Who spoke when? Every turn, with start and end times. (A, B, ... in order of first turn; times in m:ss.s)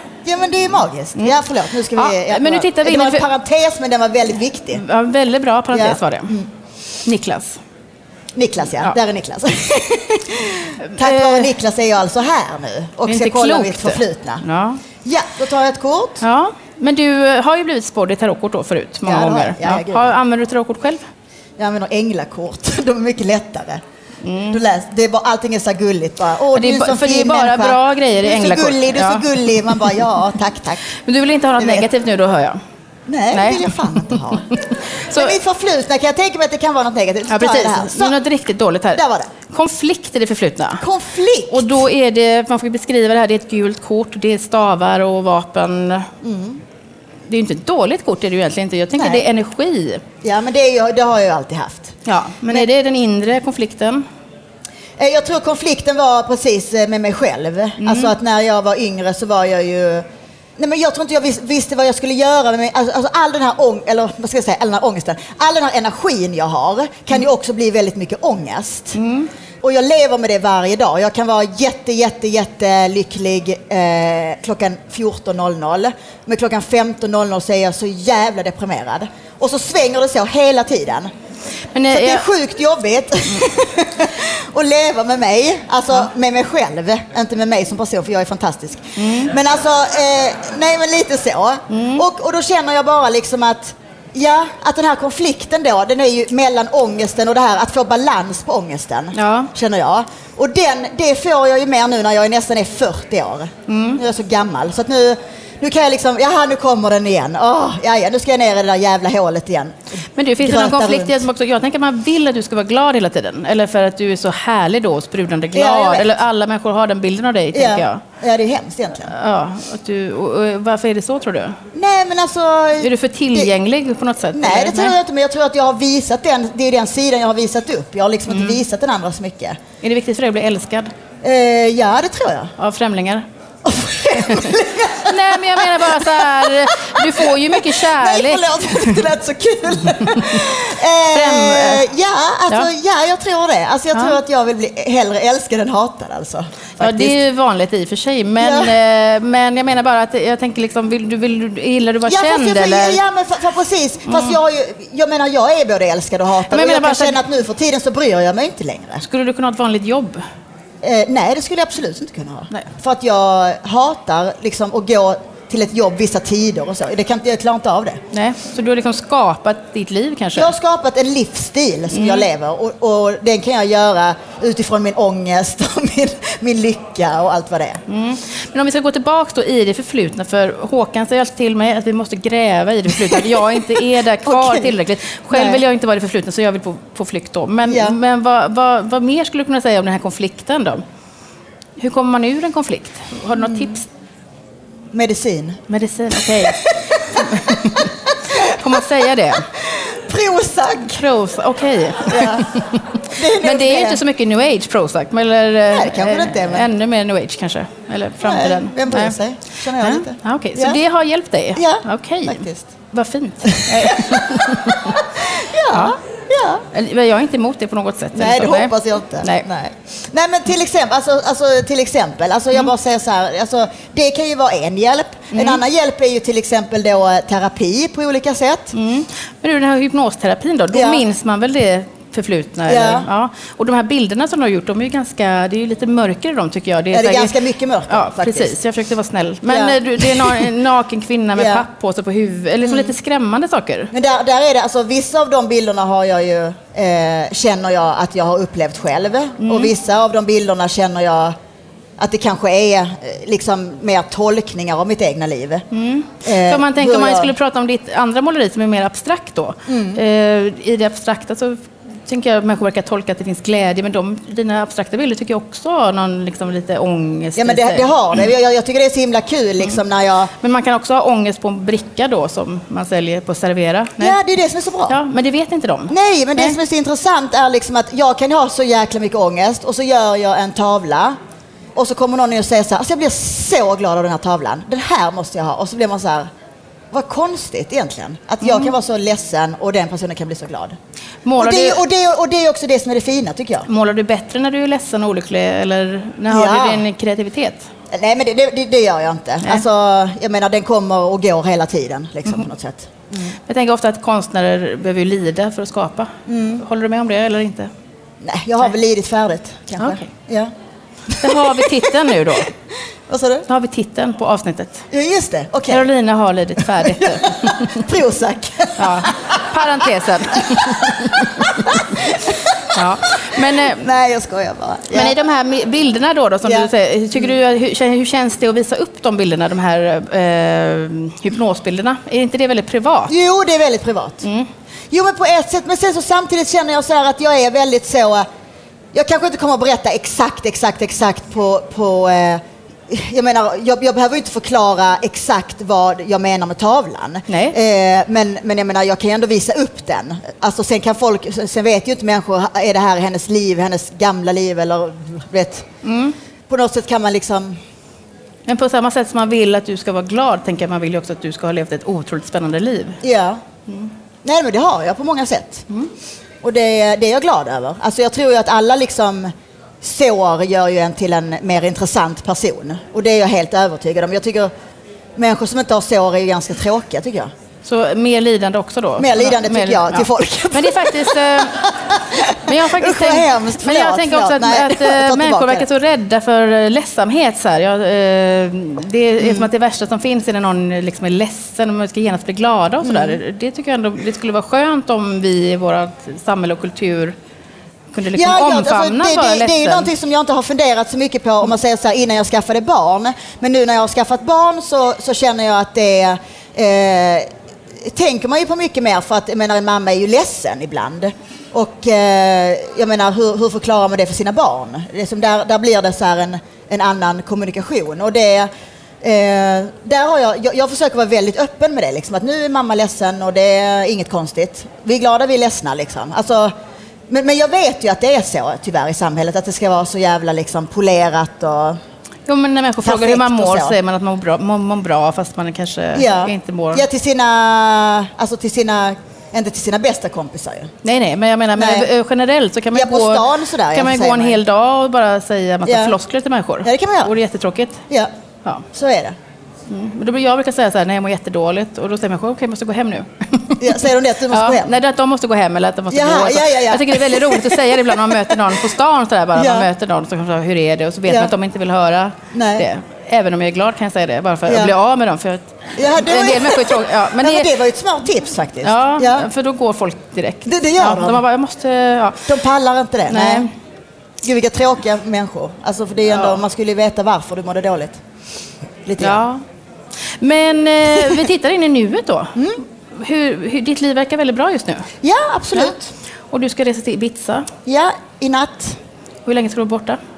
0:00.2-0:04.8 A
0:01.9-0:03.3 B
0:04.7-0:06.3 B
0:05.7-0:06.5 A
0:07.0-0:07.6 B
0:08.3-0:14.4 A
0:10.8-0:11.5 B
0:13.1-0:14.8 B
0:15.0-0:16.2 A
0:16.2-0:21.0 B
0:19.0-0:20.1 A
0:21.6-0:23.8 A
0:24.2-0:24.6 B
0:24.5-0:30.8 A
0:26.5-0:29.9 B
0:31.0-0:32.6 B
0:31.6-0:31.9 A
0:33.1-0:34.5 A
0:33.3-0:35.3 B
0:35.1-0:38.2 A
0:37.3-0:40.8 B
0:38.9-0:39.3 A
0:40.8-0:41.8 A
0:41.5-0:46.1 B
0:46.2-0:46.6 A
0:47.3-0:50.0 B
0:48.9-0:49.2 A
0:50.2-0:52.0 A
0:52.0-0:54.0 B
0:55.0-1:00.0 A
0:57.8-0:58.1 B
1:00.6-1:09.0 A
1:08.9-1:09.3 B
1:09.6-1:21.1 A
1:21.7-1:22.2 B
1:21.9-1:49.8 A
1:29.0-1:29.3 B
1:31.7-1:32.0 B
1:39.1-1:39.5 B
1:43.7-1:44.0 B
1:50.2-1:58.0 B
1:50.4-1:51.2 A
1:55.5-1:56.1 A
1:57.5-1:59.1 A
1:59.0-2:01.6 B
2:01.7-2:03.5 A
2:02.8-2:05.0 B
2:04.3-2:09.6 A
2:08.3-2:08.6 B
2:09.8-2:10.9 B
2:11.2-2:12.5 A
2:12.6-2:13.2 B
2:13.6-2:27.2 A
2:15.0-2:18.8 B
2:21.1-2:21.9 B
2:26.8-2:33.0 B
2:28.4-2:28.7 A
2:32.0-2:39.0 A
2:34.1-2:34.4 B
2:36.5-2:37.2 B
2:39.0-2:40.2 B
2:40.8-2:48.0 A
2:48.1-2:50.5 B
2:50.3-2:57.8 A
2:51.9-2:52.2 B
2:57.9-3:10.8 B
3:04.2-3:04.7 A
3:05.3-3:05.6 A
3:07.6-3:08.0 A
3:11.8-3:13.9 B
3:13.4-3:13.7 A
3:14.9-3:15.6 A
3:15.7-3:19.5 B
3:16.2-3:18.8 A
3:19.6-3:21.0 A
3:21.0-3:29.2 B
3:22.0-3:22.5 A
3:23.1-3:24.0 A
3:25.7-3:26.7 A
3:28.2-3:30.8 A
3:29.8-3:35.0 B
3:31.6-3:32.7 A
3:33.5-3:36.6 A
3:36.7-3:39.4 B
3:38.1-3:48.7 A
3:45.3-3:45.6 B
3:48.7-3:57.3 B
3:50.7-3:51.0 A
3:52.7-3:53.1 A
3:56.9-3:58.5 A
3:57.9-4:03.9 B
3:59.5-4:00.5 A
4:01.3-4:01.6 A
4:02.6-4:02.9 A
4:03.9-4:11.4 A
4:09.4-4:09.7 B
4:12.0-4:15.6 A
4:15.7-4:28.3 B
4:16.2-4:17.3 A
4:19.7-4:20.0 A
4:27.4-4:30.3 A
4:30.4-4:34.2 B
4:34.0-4:35.0 A
4:34.9-4:36.6 B
4:35.9-4:41.2 A
4:41.7-4:46.3 A
4:46.9-4:50.8 A
4:48.4-4:48.7 B
4:51.2-4:51.8 B
4:51.4-4:53.7 A
4:53.7-4:57.7 B
4:56.3-4:56.8 A
4:57.9-5:03.3 A
5:03.5-5:07.7 B
5:06.3-5:06.6 A
5:08.2-5:10.5 A
5:09.8-5:10.1 B
5:11.1-5:11.8 A
5:11.2-5:12.5 B
5:13.1-5:13.4 A
5:13.5-5:14.8 B
5:14.9-5:15.9 A
5:15.7-5:17.8 B
5:16.8-5:19.6 A
5:18.8-5:21.8 B
5:20.3-5:22.8 A
5:22.7-5:23.8 B
5:23.4-5:25.2 A
5:24.9-5:33.1 B
5:26.4-5:26.7 A
5:33.1-5:34.2 A
5:34.2-5:34.5 B
5:34.9-5:38.3 A
5:38.9-5:55.7 A
5:47.3-5:47.6 B
5:55.8-5:56.1 B
5:56.5-5:57.6 A
5:58.5-6:03.0 B
6:03.0-6:03.4 A
6:04.2-6:05.6 A
6:06.4-6:14.5 A
6:15.2-6:17.3 A
6:17.6-6:21.7 B
6:19.0-6:25.6 A
6:22.4-6:37.2 B
6:29.2-6:29.5 A
6:32.8-6:33.2 A
6:37.9-6:39.9 B
6:38.1-6:47.3 A
6:47.8-6:58.5 A
6:59.0-7:06.5 A
7:07.1-7:11.8 A
7:12.3-7:16.8 B
7:12.8-7:13.7 A
7:15.9-7:20.7 A
7:20.8-7:27.8 B
7:21.6-7:21.9 A
7:22.7-7:24.4 A
7:25.6-7:26.0 A
7:26.6-7:27.1 A
7:28.7-7:29.2 A
7:29.7-7:33.7 B
7:33.6-7:34.7 A
7:34.3-7:47.5 B
7:35.9-7:38.4 A
7:39.4-7:39.7 A
7:41.0-7:41.3 A
7:42.3-7:42.7 A
7:44.5-7:44.7 A
7:45.8-7:49.3 A
7:48.6-7:52.2 B
7:50.4-7:51.2 A
7:52.3-7:53.5 A
7:53.1-7:53.5 B
7:54.2-7:58.0 A
7:58.8-7:59.2 A
7:59.0-7:59.4 B
8:00.2-8:02.4 B
8:02.9-8:04.9 B
8:05.0-8:05.9 A
8:06.3-8:07.5 B
8:07.6-8:08.8 A
8:09.2-8:10.0 B